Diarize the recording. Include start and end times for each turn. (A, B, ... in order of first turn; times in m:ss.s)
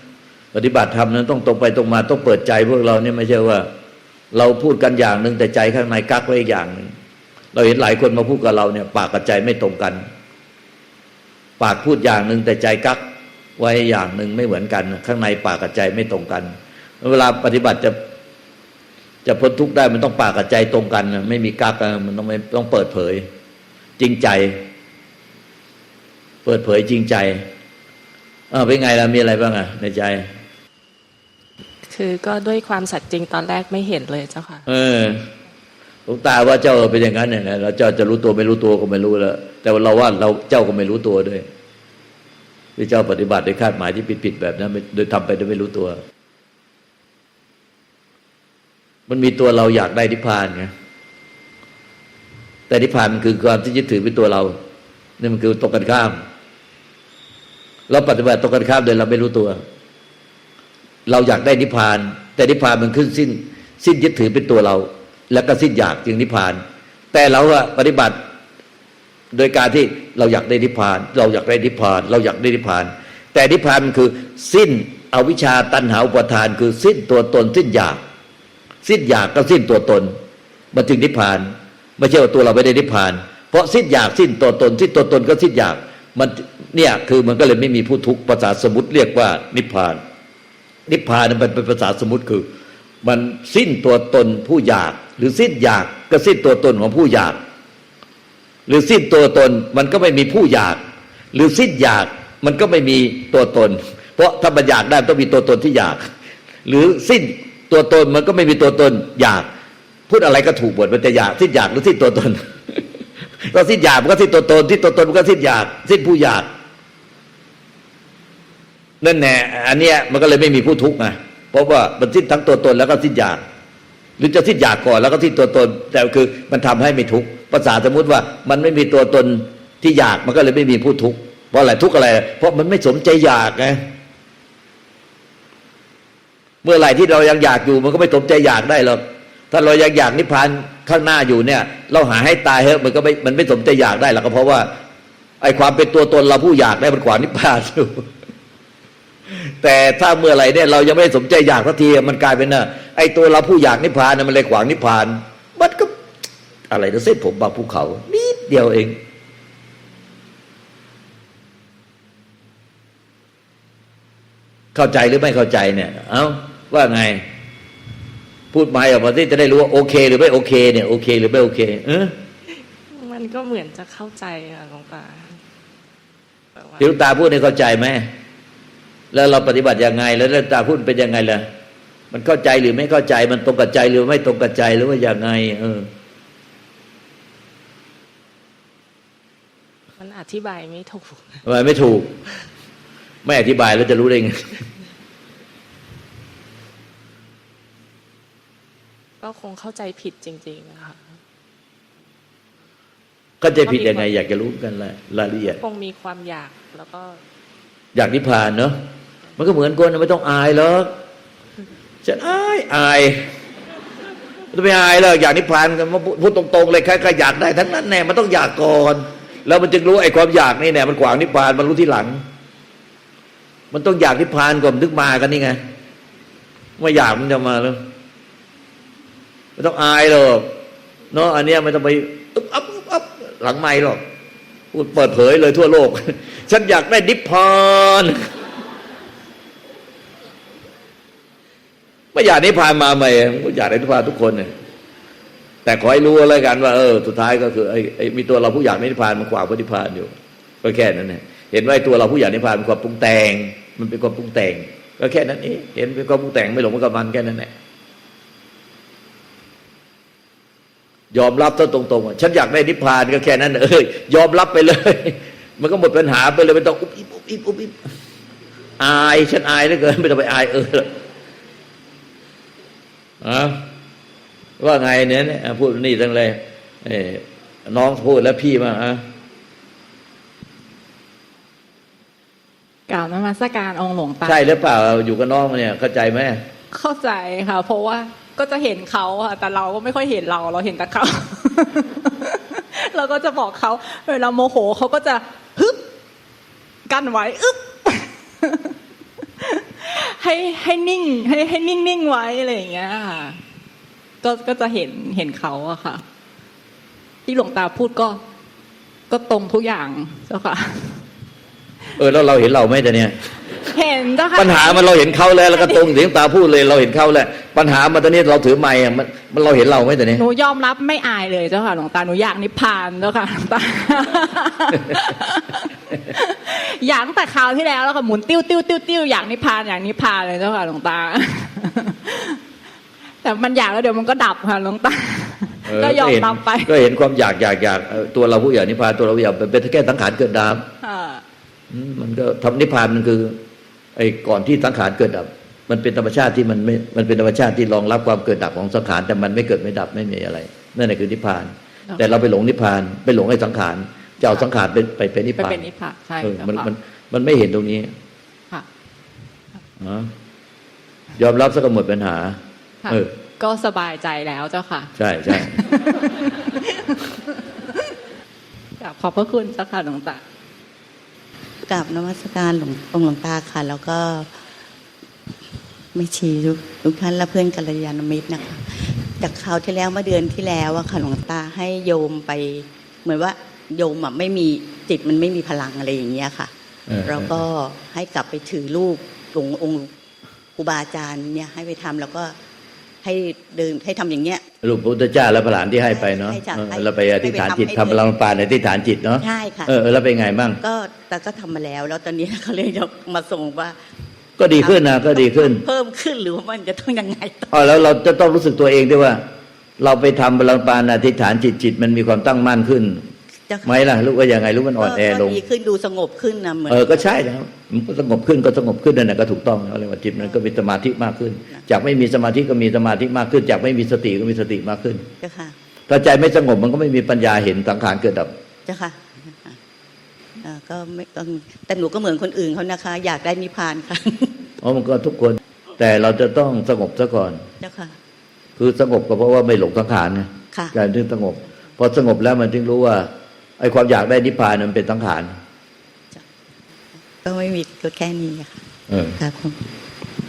0:00.5-0:03.7 A
0:04.3-0:06.9 A
0:07.5-0:10.0 A
0:11.6-0:13.0 A
0:13.6-0:18.0 A
0:19.2-0:23.2 A
0:24.0-0:24.6 A
0:26.4-0:27.5 A
0:28.5-0:30.2 A
0:31.9-0:34.7 B
0:34.7-0:35.2 A
0:36.1-0:41.5 A
0:42.8-0:46.0 A
0:49.1-0:50.7 A
0:52.7-0:54.6 A
0:55.2-0:56.2 A
0:57.9-0:59.6 A
1:01.1-1:06.6 A
1:07.1-1:08.2 A
1:09.3-1:18.0 A
1:18.8-1:20.1 A
1:20.7-1:30.0 A
1:30.9-1:32.5 A
1:33.0-1:37.4 A
1:38.7-1:40.8 A
1:41.3-1:46.1 A
1:46.6-1:49.5 A
1:50.1-1:52.8 A
1:53.5-1:56.5 A
1:59.0-2:03.4 A
2:04.2-2:13.8 A
2:16.6-2:24.7 A
2:25.4-2:28.0 A
2:29.3-2:35.9 A
2:36.7-2:39.0 A
2:44.7-2:47.2 A
2:48.5-2:52.2 A
2:52.9-2:55.4 B
2:56.6-2:56.9 B
2:56.8-2:58.1 A
2:59.1-3:01.4 A
3:02.1-3:05.9 A
3:10.0-3:11.4 B
3:11.4-3:12.1 A
3:13.2-3:14.6 A
3:19.2-3:21.2 B
3:23.4-3:25.6 A
3:23.6-3:24.2 B
3:25.5-3:27.2 B
3:27.9-3:28.8 A
3:29.4-3:30.9 A
3:32.0-3:33.2 A
3:34.5-3:42.2 A
3:43.7-3:45.6 A
3:46.8-3:47.8 A
3:49.6-3:50.5 A
3:51.1-3:54.0 A
3:54.7-3:58.3 A
4:02.1-4:04.5 A
4:05.6-4:17.5 A
4:21.1-4:27.8 A
4:28.8-4:30.9 A
4:33.2-4:33.6 A
4:34.6-4:39.0 A
4:42.9-4:44.4 C
4:44.2-4:46.4 A
4:46.7-4:55.8 C
4:56.8-4:58.8 C
4:59.4-5:03.4 C
5:04.2-5:06.0 C
5:07.2-5:08.2 C
5:09.1-5:11.0 C
5:12.0-5:13.2 A
5:13.7-5:14.9 C
5:14.4-5:20.2 A
5:20.2-5:32.4 C
5:33.2-5:36.6 C
5:35.6-5:40.6 A
5:40.8-5:41.2 C
5:41.7-5:43.4 A
5:44.0-5:55.6 A
5:55.6-5:56.6 C
5:56.2-5:57.9 A
5:59.8-6:00.1 A
6:01.2-6:02.4 A
6:02.8-6:07.2 C
6:02.9-6:03.1 A
6:05.0-6:05.6 A
6:08.8-6:10.2 C
6:11.7-6:14.2 C
6:11.8-6:14.2 D
6:16.0-6:26.5 C
6:16.4-6:17.0 D
6:19.9-6:22.5 D
6:23.1-6:26.5 D
6:26.9-6:27.4 A
6:27.2-6:29.8 C
6:28.3-6:29.0 D
6:30.6-6:32.3 C
6:30.6-6:32.3 D
6:33.0-6:34.4 C
6:33.4-6:34.4 D
6:34.6-6:40.6 A
6:36.3-6:38.0 C
6:39.2-6:39.7 C
6:40.6-6:43.7 C
6:40.6-6:42.1 D
6:44.4-6:45.6 A
6:45.6-6:47.2 C
6:46.4-6:47.5 D
6:47.5-6:49.2 A
6:49.8-6:53.1 A
6:53.6-6:55.4 A
6:54.8-6:55.9 D
6:55.5-6:56.7 C
6:56.7-7:05.1 A
7:05.2-7:05.5 D
7:05.9-7:08.3 A
7:08.7-7:09.0 D
7:10.4-7:13.8 C
7:10.8-7:14.3 D
7:14.6-7:17.4 A
7:17.6-7:18.0 D
7:18.6-7:25.4 A
7:27.2-7:28.4 C
7:27.4-7:28.5 D
7:28.9-7:29.2 A